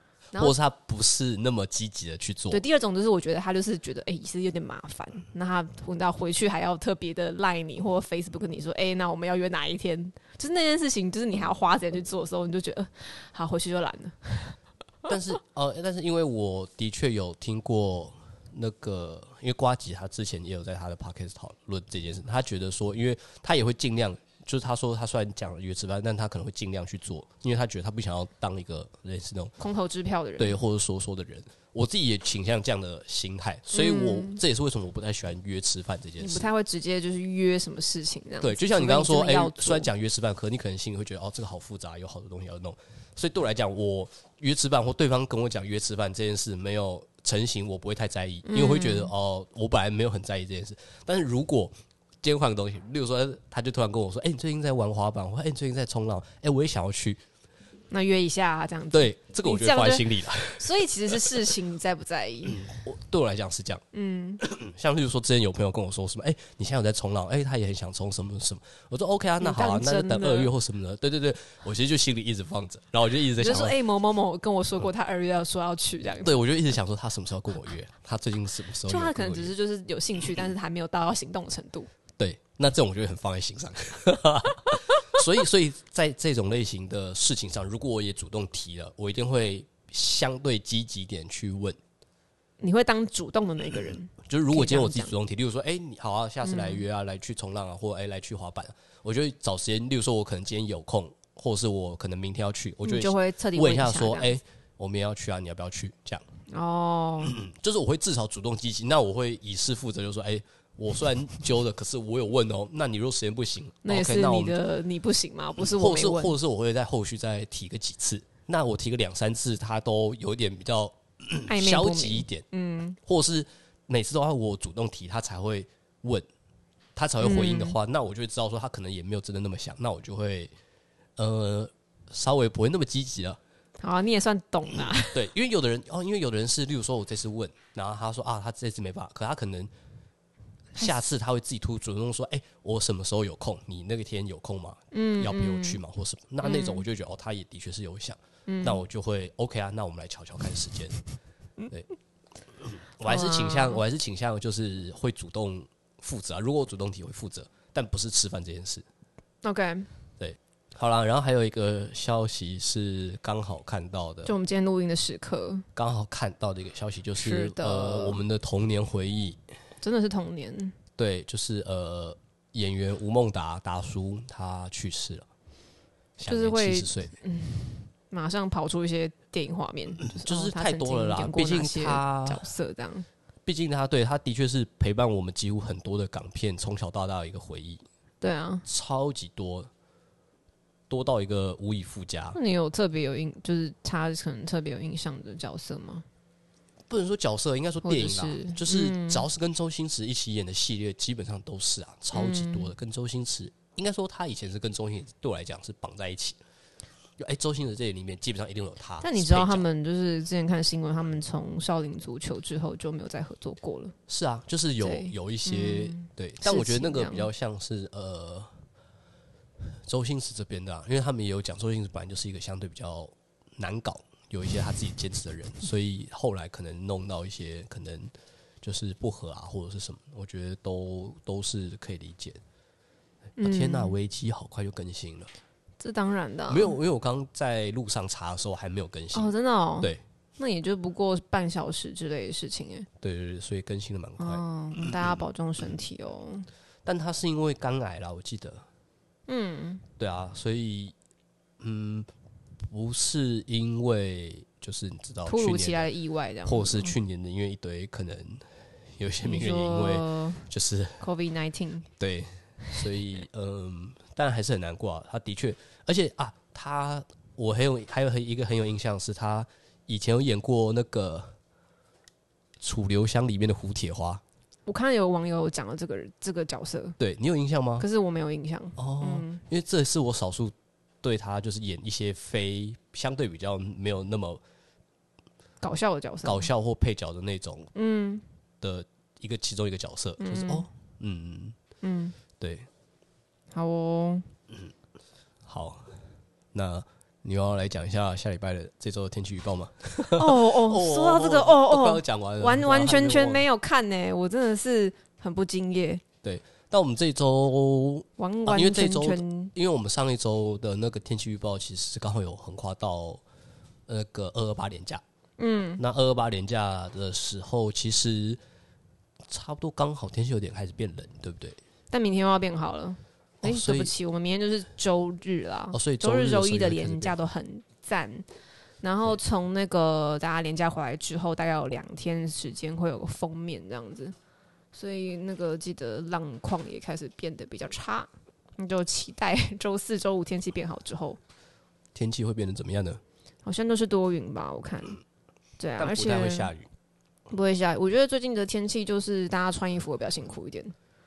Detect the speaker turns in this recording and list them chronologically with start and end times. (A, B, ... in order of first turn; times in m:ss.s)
0:00.4-0:02.6 A
0:02.5-0:14.6 B
0:15.1-0:29.5 A
0:29.6-0:30.6 B
0:30.4-0:36.5 A
0:33.7-0:34.4 B
0:36.2-0:39.9 B
0:38.4-0:57.2 A
0:48.4-0:49.1 B
0:57.9-1:02.7 B
0:58.9-1:01.2 A
1:02.4-1:03.8 A
1:03.9-1:04.4 B
1:04.4-1:13.8 A
1:09.4-1:10.5 B
1:13.4-1:16.4 B
1:16.2-1:19.5 A
1:18.8-1:21.9 B
1:22.2-1:31.8 A
1:32.6-1:35.1 B
1:34.2-1:46.2 A
1:36.4-1:36.8 B
1:42.8-1:44.4 B
1:46.5-1:47.4 B
1:47.2-1:54.6 A
1:53.8-1:56.4 B
1:55.6-2:02.4 A
2:01.5-2:03.0 B
2:03.0-2:06.2 A
2:07.0-2:10.5 A
2:07.2-2:07.8 B
2:11.2-2:13.4 A
2:13.8-2:15.2 B
2:15.1-2:19.7 A
2:20.8-2:21.1 B
2:20.8-2:31.0 A
2:24.9-2:25.8 B
2:26.4-2:26.8 B
2:28.5-2:28.8 B
2:32.6-2:38.8 A
2:33.0-2:33.8 B
2:39.4-2:39.9 B
2:40.2-2:44.3 A
2:44.2-2:45.6 B
2:45.7-2:49.4 A
2:47.2-2:48.2 B
2:49.8-2:50.8 B
2:51.0-2:55.3 A
2:56.2-2:57.1 A
2:56.2-3:03.1 B
3:00.0-3:02.4 A
3:03.4-3:07.8 A
3:08.2-3:08.6 B
3:08.6-3:09.7 A
3:10.9-3:12.4 A
3:12.3-3:16.0 B
3:16.9-3:26.4 A
3:17.8-3:19.2 B
3:22.1-3:22.7 B
3:27.2-3:29.6 A
3:29.0-3:33.9 B
3:34.1-3:38.5 A
3:34.8-3:37.3 B
3:39.8-3:48.1 A
3:48.6-3:52.4 A
3:53.4-3:54.0 B
3:53.4-3:55.3 A
3:55.8-3:56.8 B
3:56.5-4:00.0 A
3:59.1-4:02.9 B
4:03.0-4:04.9 A
4:04.2-4:06.5 B
4:06.8-4:08.6 A
4:09.3-4:09.8 B
4:10.0-4:10.9 A
4:11.6-4:12.1 A
4:12.7-4:15.9 A
4:15.2-4:17.0 B
4:16.4-4:21.0 A
4:19.2-4:20.5 B
4:21.0-4:21.9 B
4:22.0-4:31.3 A
4:32.6-4:34.2 A
4:34.6-4:37.0 B
4:37.0-4:37.8 A
4:37.8-4:39.4 B
4:38.8-4:44.4 A
4:45.6-4:46.5 B
4:46.2-4:47.7 A
4:47.7-4:48.2 B
4:48.6-4:51.6 A
4:50.2-4:50.7 B
4:51.8-4:52.2 B
4:52.4-4:52.7 A
4:53.5-4:54.3 B
4:55.4-4:55.9 A
4:56.5-5:03.4 A
5:00.1-5:06.0 B
5:06.2-5:13.2 A
5:08.2-5:09.5 B
5:13.9-5:15.0 A
5:15.4-5:15.8 B
5:15.8-5:18.4 A
5:19.3-5:21.6 A
5:21.9-5:28.2 B
5:23.4-5:23.9 A
5:25.7-5:27.1 A
5:28.8-5:34.1 B
5:34.7-5:41.2 B
5:41.9-5:43.0 A
5:43.4-5:45.0 B
5:45.6-5:46.5 B
5:45.8-5:46.7 A
5:47.3-5:50.7 B